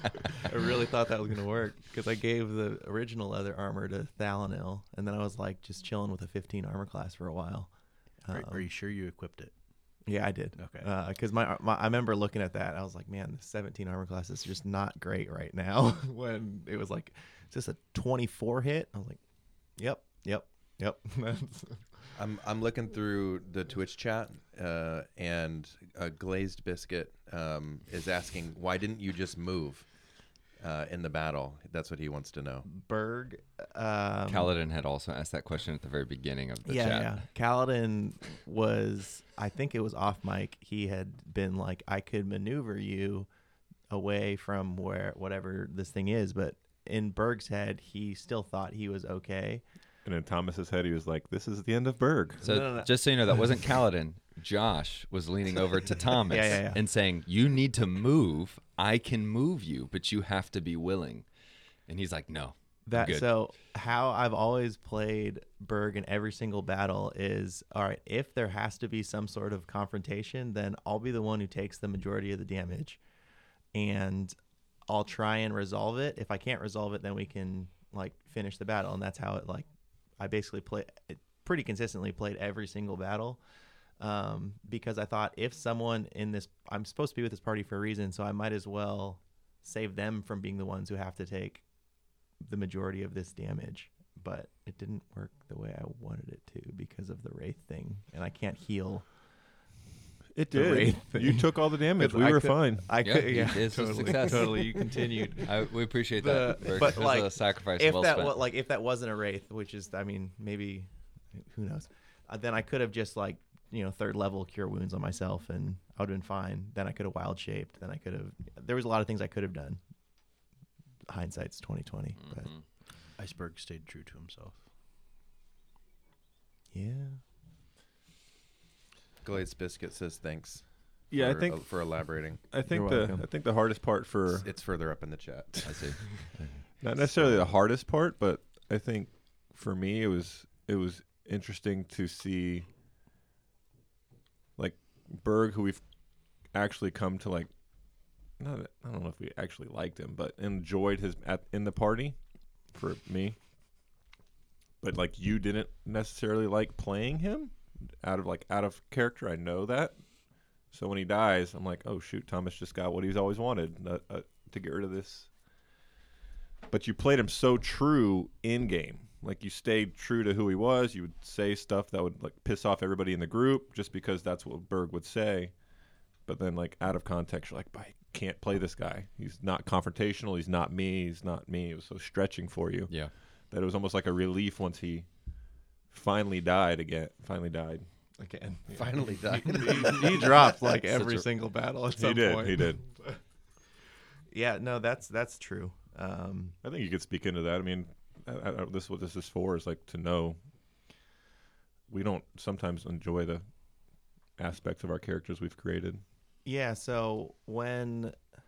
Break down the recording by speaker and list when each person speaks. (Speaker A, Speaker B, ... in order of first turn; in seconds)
Speaker A: 0.4-8.7, 10.0-22.1, 32.6-34.5, 36.6-43.3, 43.9-49.6, 52.4-53.4, 56.3-56.8, 62.9-73.0, 73.7-74.3, 74.9-83.4, 84.0-99.5, 100.5-120.4, 121.1-122.5, 126.7-127.2, 132.7-133.3, 188.2-193.2, 194.3-196.6, 206.4-208.2
Speaker B: 8.3-10.9, 123.1-124.7
Speaker C: 22.1-32.6, 129.2-132.4, 134.3-136.1, 188.7-190.3
Speaker D: 34.3-37.2, 52.4-61.3, 61.8-63.3, 103.0-104.7, 105.4-108.4, 122.2-122.7, 135.6-136.6, 190.9-191.2
Speaker E: 50.0-52.4, 100.3-102.9, 131.1-134.5, 136.8-142.7, 144.6-153.3, 154.8-165.3, 166.7-187.9, 192.0-192.8, 196.6-200.4, 201.9-203.6, 204.3-206.0